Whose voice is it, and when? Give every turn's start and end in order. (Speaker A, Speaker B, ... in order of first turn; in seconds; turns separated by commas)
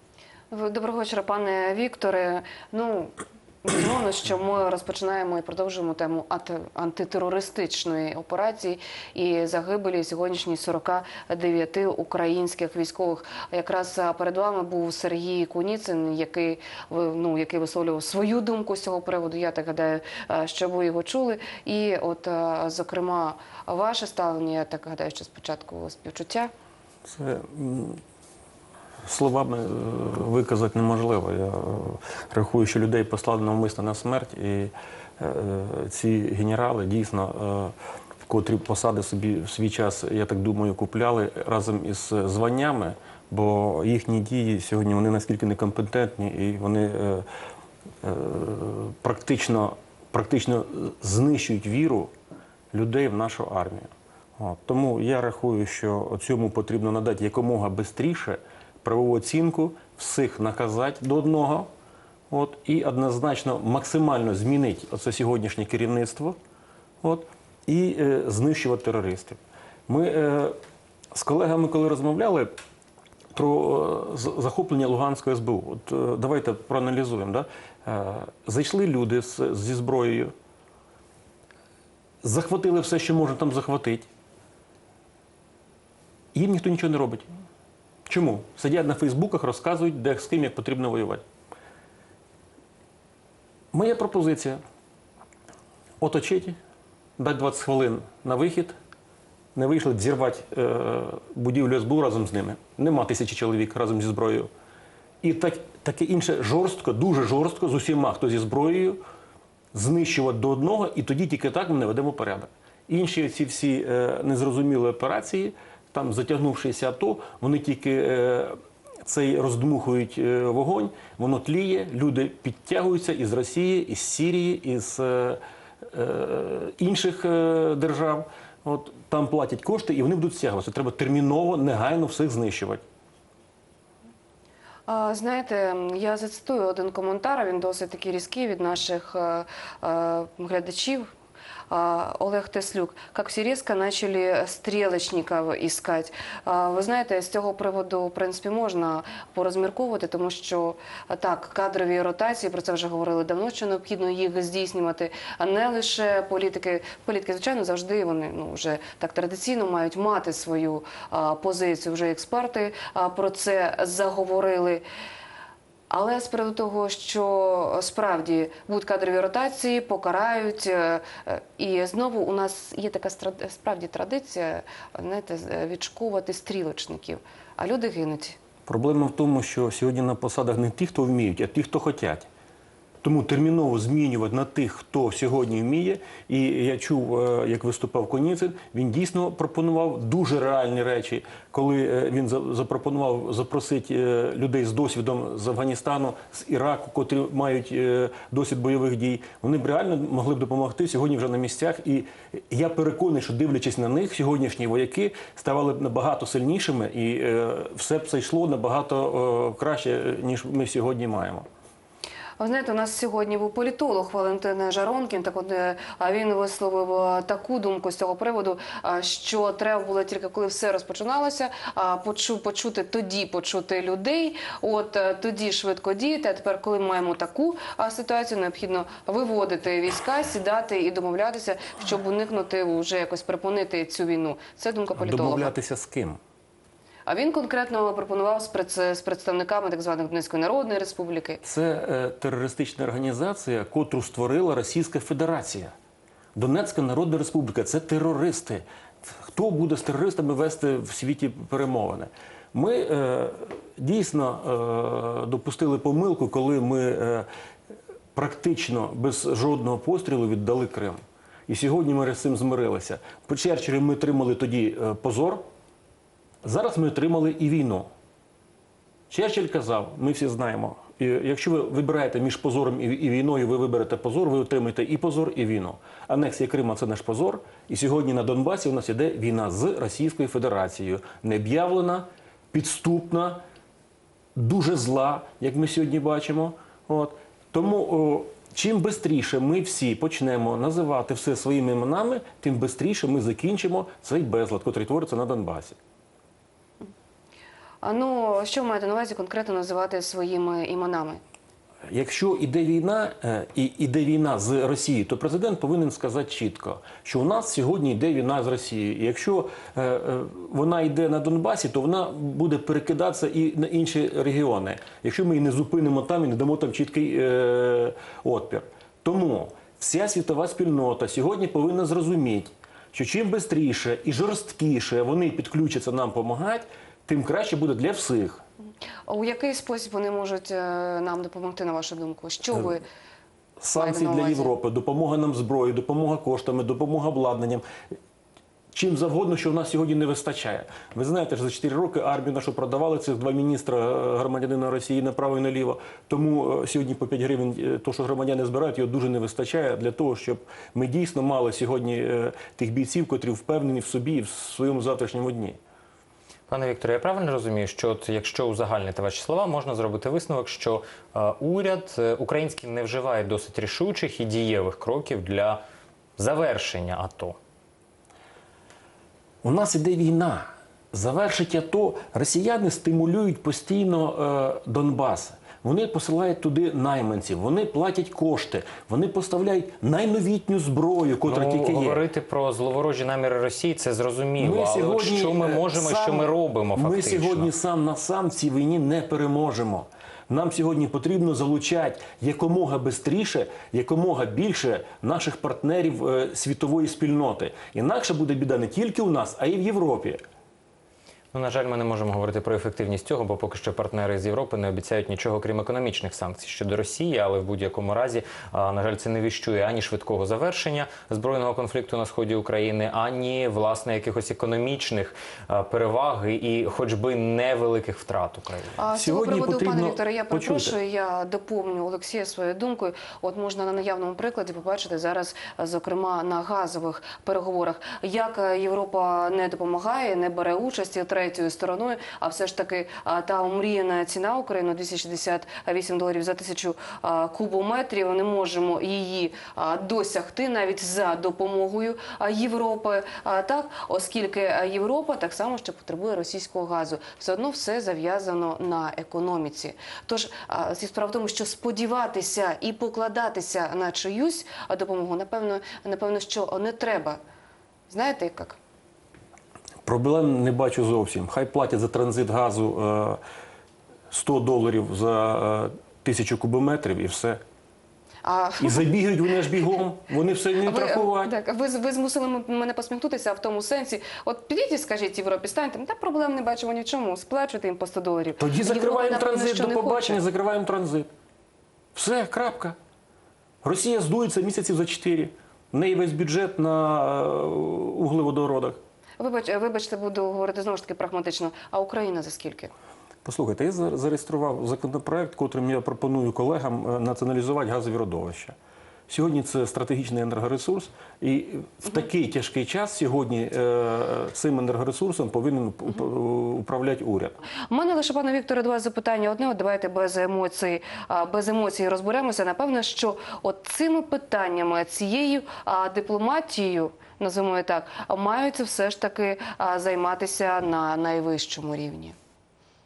Speaker A: 0.5-26.5, Speaker B: 27.1-28.0, Speaker B: 29.1-37.7, Speaker B: 38.3-47.3, Speaker B: 48.0-52.1, Speaker B: 52.7-61.7, Speaker B: 62.3-66.4, Speaker B: 67.0-70.6, Speaker B: 71.1-72.5, Speaker B: 73.3-80.3, Speaker B: 82.2-84.1, Speaker B: 86.3-87.3, Speaker B: 88.1-91.2, Speaker B: 93.7-94.6, Speaker B: 96.0-96.6, Speaker B: 97.2-98.8, Speaker B: 99.5-104.5, Speaker B: 105.2-109.0, Speaker B: 109.7-132.8, Speaker A: 134.9-141.1, Speaker A: 141.7-164.8, Speaker A: 165.9-178.4, Speaker B: 178.7-182.3, Speaker B: 183.0-211.5, Speaker A: 212.4-235.6, Speaker B: 235.0-236.2, Speaker A: 237.1-241.4, Speaker B: 241.4-245.7, Speaker B: 246.3-257.3, Speaker B: 258.1-265.4, Speaker B: 266.4-267.9, Speaker B: 269.1-283.4, Speaker B: 284.4-295.8, Speaker A: 297.8-301.2, Speaker B: 301.9-328.4, Speaker A: 329.1-332.9, Speaker B: 333.6-337.6, Speaker A: 333.8-334.6, Speaker B: 338.7-355.6, Speaker C: 356.5-365.6, Speaker C: 366.2-367.4, Speaker B: 369.4-382.0, Speaker C: 381.2-387.5, Speaker B: 384.4-400.2, Speaker C: 401.3-418.7, Speaker A: 418.8-457.2, Speaker B: 418.9-420.8, Speaker A: 457.9-458.6, Speaker B: 459.9-463.2, Speaker B: 464.1-467.4, Speaker A: 468.2-469.8, Speaker B: 468.6-471.3, Speaker A: 470.6-480.2, Speaker B: 478.4-481.1, Speaker B: 481.9-482.8, Speaker B: 483.6-488.8, Speaker A: 489.2-492.7, Speaker B: 493.2-498.6, Speaker B: 499.1-507.4, Speaker A: 507.6-522.1